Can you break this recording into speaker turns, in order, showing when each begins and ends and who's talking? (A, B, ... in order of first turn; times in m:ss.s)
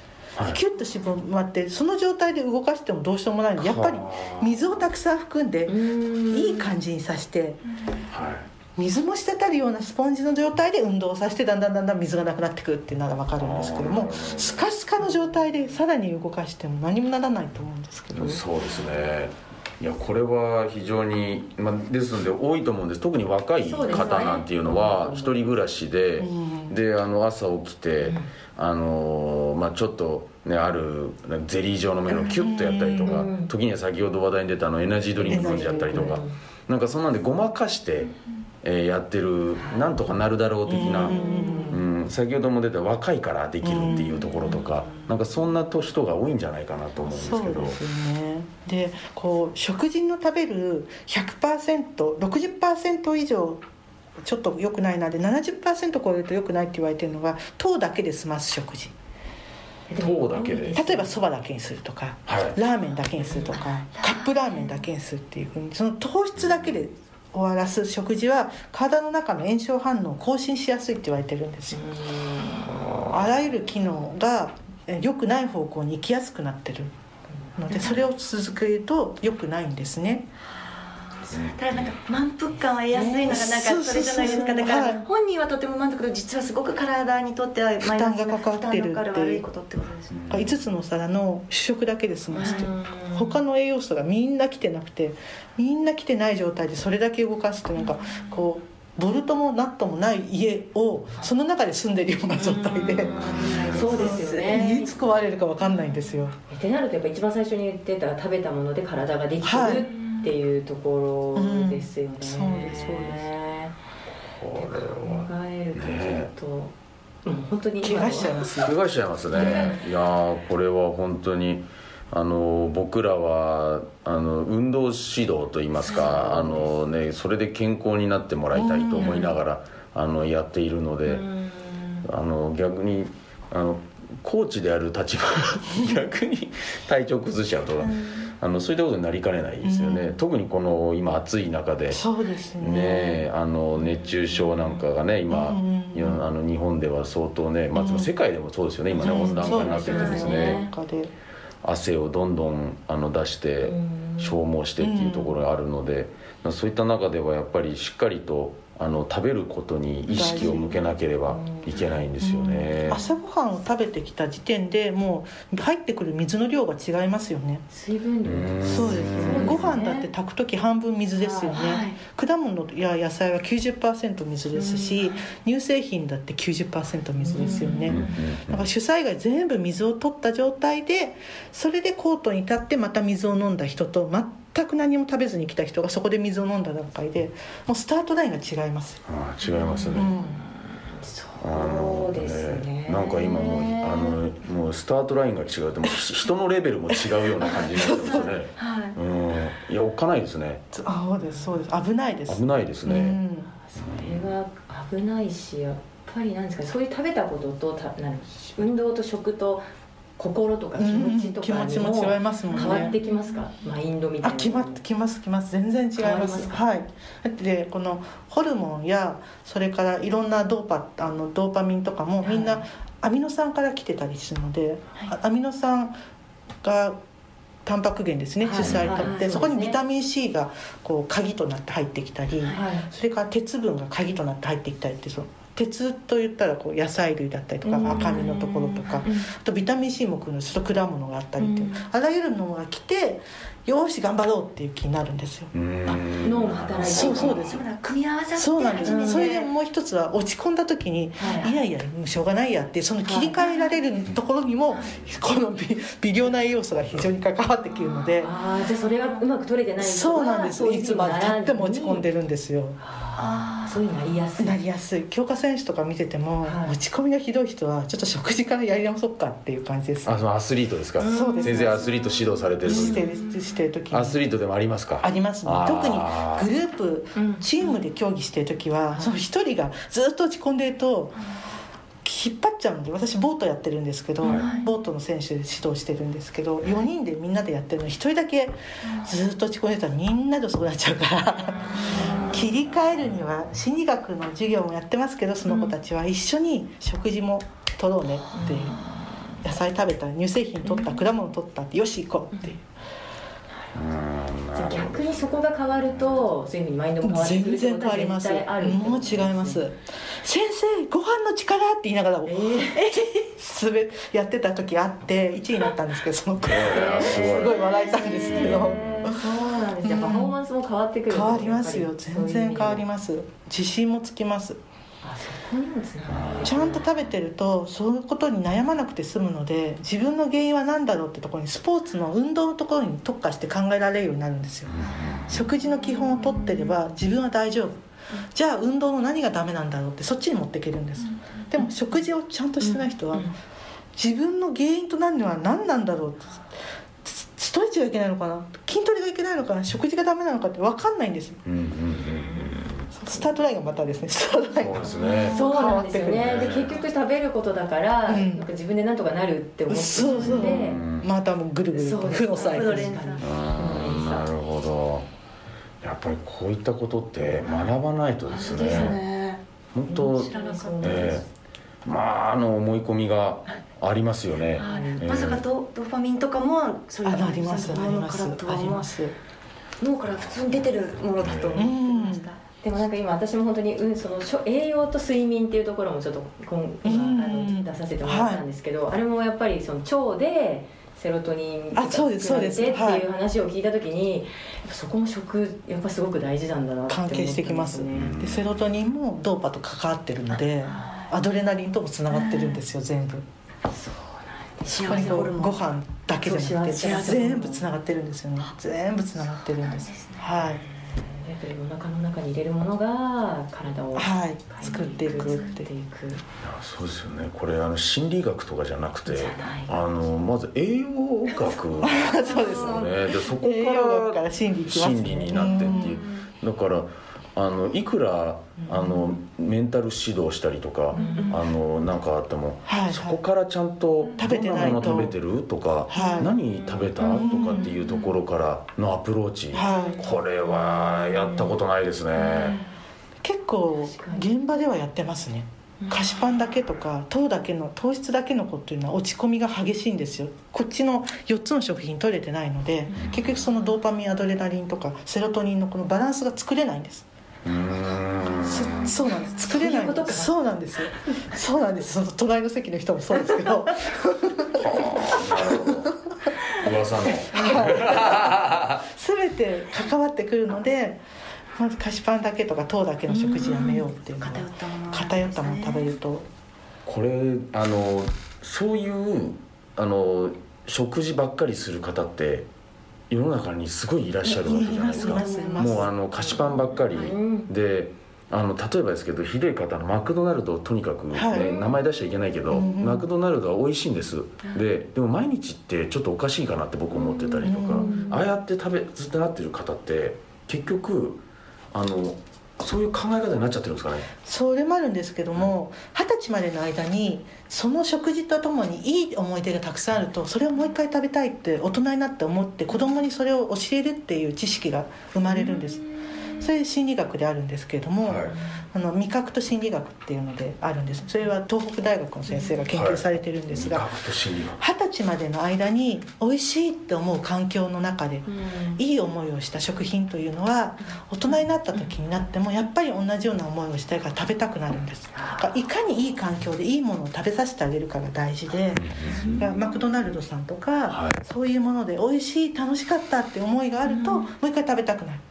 0:00.4-0:07.6 A
0:03.6-0:04.7 B
0:05.7-0:06.7 C
0:08.1-0:08.4 B
0:08.8-0:18.4 A
0:13.4-0:14.7 B
0:18.1-0:38.1 B
0:23.6-0:25.5 C
0:26.2-0:26.8 A
0:32.1-0:33.2 A
0:33.0-0:33.5 C
0:35.2-0:36.3 C
0:35.2-0:36.2 A
0:38.6-0:47.8 B
0:40.7-0:41.8 A
0:40.8-0:41.8 C
0:43.6-0:44.2 A
0:47.1-0:53.6 A
0:54.2-0:59.0 A
0:59.9-1:01.2 C
1:00.0-1:00.8 B
1:00.8-1:11.9 A
1:02.3-1:02.6 B
1:03.2-1:03.6 C
1:04.0-1:04.7 D
1:11.7-1:13.0 C
1:12.7-1:13.2 B
1:13.1-1:16.9 A
1:17.6-1:20.3 A
1:20.6-1:30.2 D
1:21.3-1:21.9 B
1:22.9-1:23.4 C
1:23.2-1:25.1 A
1:27.8-1:29.4 A
1:30.1-1:30.6 B
1:30.3-1:46.4 A
1:32.3-1:33.4 C
1:42.5-1:44.9 C
1:42.8-1:44.1 B
1:43.1-1:44.6 D
1:46.5-1:53.7 C
1:49.4-1:49.9 A
1:51.4-1:53.3 A
1:54.4-1:56.3 B
1:54.6-1:56.7 C
1:57.2-1:58.4 C
1:57.8-1:58.8 A
1:58.6-2:11.3 B
1:59.3-1:59.8 C
2:05.9-2:06.8 C
2:08.5-2:09.3 A
2:09.0-2:09.4 C
2:11.1-2:12.0 C
2:12.0-2:22.0 B
2:19.6-2:20.2 A
2:21.9-2:23.3 A
2:22.6-2:30.6 B
2:23.9-2:24.8 C
2:25.3-2:26.2 A
2:27.7-2:28.1 A
2:29.0-2:31.1 A
2:29.0-2:30.7 C
2:29.9-2:30.2 D
2:31.6-2:43.0 B
2:33.6-2:34.4 C
2:34.8-2:35.4 A
2:40.1-2:40.8 A
2:40.1-2:42.0 C
2:42.2-2:47.6 A
2:47.7-2:50.1 C
2:48.2-2:49.8 B
2:48.6-3:09.0 A
2:51.2-2:51.6 C
2:51.5-2:52.0 D
2:54.6-2:55.2 C
2:57.2-2:58.2 C
2:57.9-2:58.7 B
3:09.1-3:10.1 B
3:09.4-3:14.2 C
3:09.9-3:10.4 A
3:11.4-3:20.6 B
3:16.9-3:18.3 A
3:18.1-3:19.0 D
3:20.7-3:23.5 A
3:22.3-3:23.2 B
3:23.7-3:29.7 C
3:23.8-3:24.3 B
3:30.2-3:34.8 C
3:30.8-3:33.0 A
3:32.6-3:33.2 D
3:34.2-3:46.0 A
3:36.0-3:36.6 C
3:42.2-3:42.6 C
3:46.6-3:47.0 A
3:47.6-4:06.0 A
3:48.4-3:49.8 C
3:48.6-3:49.1 B
3:52.5-3:52.9 C
3:57.6-3:59.3 C
3:57.8-3:58.2 B
4:01.4-4:01.7 C
4:05.5-4:07.6 B
4:06.2-4:07.4 C
4:06.8-4:09.5 D
4:06.8-4:07.6 A
4:08.4-4:18.3 A
4:08.8-4:09.3 C
4:11.2-4:11.6 C
4:13.1-4:13.3 C
4:13.2-4:13.6 D
4:16.8-4:17.0 B
4:18.2-4:22.0 C
4:19.8-4:22.8 A
4:22.8-4:24.6 C
4:23.2-4:23.8 D
4:24.4-4:30.2 A
4:26.4-4:26.8 C
4:30.0-4:33.1 B
4:31.0-4:31.8 C
4:31.0-4:32.0 A
4:32.6-4:34.2 A
4:32.7-4:33.0 C
4:33.9-4:36.5 B
4:35.0-4:41.2 A
4:37.2-4:37.5 C
4:42.0-4:58.8 A
4:44.3-4:44.7 C
4:51.9-4:52.4 C
4:58.3-4:59.2 C
4:59.4-5:02.6 A
5:00.7-5:01.0 C
5:03.7-5:06.2 B
5:04.5-5:09.6 C
5:07.0-5:20.4 A
5:12.3-5:13.0 C
5:16.4-5:18.8 B
5:16.6-5:22.8 C
5:21.1-5:24.6 A
5:25.0-5:26.9 C
5:26.1-5:26.6 B
5:26.4-5:37.8 A
5:34.7-5:35.5 B
5:36.2-5:36.6 C
5:38.3-5:43.3 A
5:42.6-5:43.3 C
5:44.0-5:46.4 A
5:47.0-5:51.4 A
5:51.4-5:52.9 B
5:52.3-5:52.6 C
5:52.9-5:56.5 A
5:54.6-5:55.5 B
5:55.2-5:55.5 D
5:55.3-6:00.8 C
5:56.1-5:56.8 B
5:58.1-5:58.5 A
5:59.7-6:03.0 A
6:00.2-6:01.1 B
6:01.7-6:04.3 C
6:02.3-6:03.3 D
6:03.2-6:05.1 B
6:05.8-6:09.0 B
6:08.3-6:09.0 C
6:08.3-6:09.4 D
6:09.7-6:11.2 B
6:09.9-6:11.2 C
6:10.2-6:11.2 D
6:11.8-6:15.4 B
6:14.6-6:18.9 D
6:14.6-6:15.1 C
6:17.0-6:19.2 A
6:19.8-6:22.4 D
6:20.1-6:21.7 B
6:21.5-6:22.3 A
6:22.6-6:38.1 C
6:26.8-6:28.4 A
6:31.7-6:33.0 A
6:36.9-6:43.3 A
6:37.9-6:38.6 B
6:40.7-6:41.1 D
6:42.2-6:42.6 D
6:43.7-6:45.4 C
6:44.6-6:45.7 D
6:44.7-6:50.6 A
6:46.1-6:47.7 C
6:46.8-6:47.2 D
6:49.6-6:50.3 D
6:50.4-6:56.2 C
6:54.0-6:55.7 A
6:56.4-7:22.6 B
6:59.1-6:59.8 C
7:01.8-7:06.0 A
7:02.3-7:02.6 D
7:05.5-7:06.1 D
7:08.7-7:08.9 A
7:10.9-7:11.4 D
7:10.9-7:11.4 C
7:12.7-7:13.2 A
7:14.2-7:15.2 A
7:15.9-7:16.4 A
7:15.9-7:18.1 C
7:17.1-7:17.7 A
7:19.5-7:20.0 A
7:19.7-7:21.6 C
7:23.2-7:37.1 A
7:23.9-7:24.3 C
7:32.9-7:33.2 C
7:37.4-7:39.0 B
7:38.4-7:46.0 A
7:38.6-7:40.3 C
7:44.5-7:46.0 B
7:46.5-7:48.8 B
7:47.3-7:51.0 A
7:51.6-7:56.3 A
7:53.3-7:56.0 D
7:56.8-8:02.5 B
8:03.1-8:21.2 B
8:04.3-8:05.9 A
8:04.5-8:05.8 D
8:05.3-8:05.6 C
8:06.9-8:07.5 C
8:11.1-8:11.5 A
8:12.5-8:13.1 A
8:17.4-8:17.9 A
8:17.8-8:18.3 C
8:21.7-8:24.1 B
8:24.2-8:43.9 A
8:38.0-8:38.4 B
8:42.7-8:44.6 B
8:44.6-9:05.2 A
8:48.3-8:48.8 C
8:55.2-8:55.6 C
8:58.7-8:59.5 B
8:59.1-8:59.5 C
9:00.9-9:01.2 B
9:03.9-9:04.3 C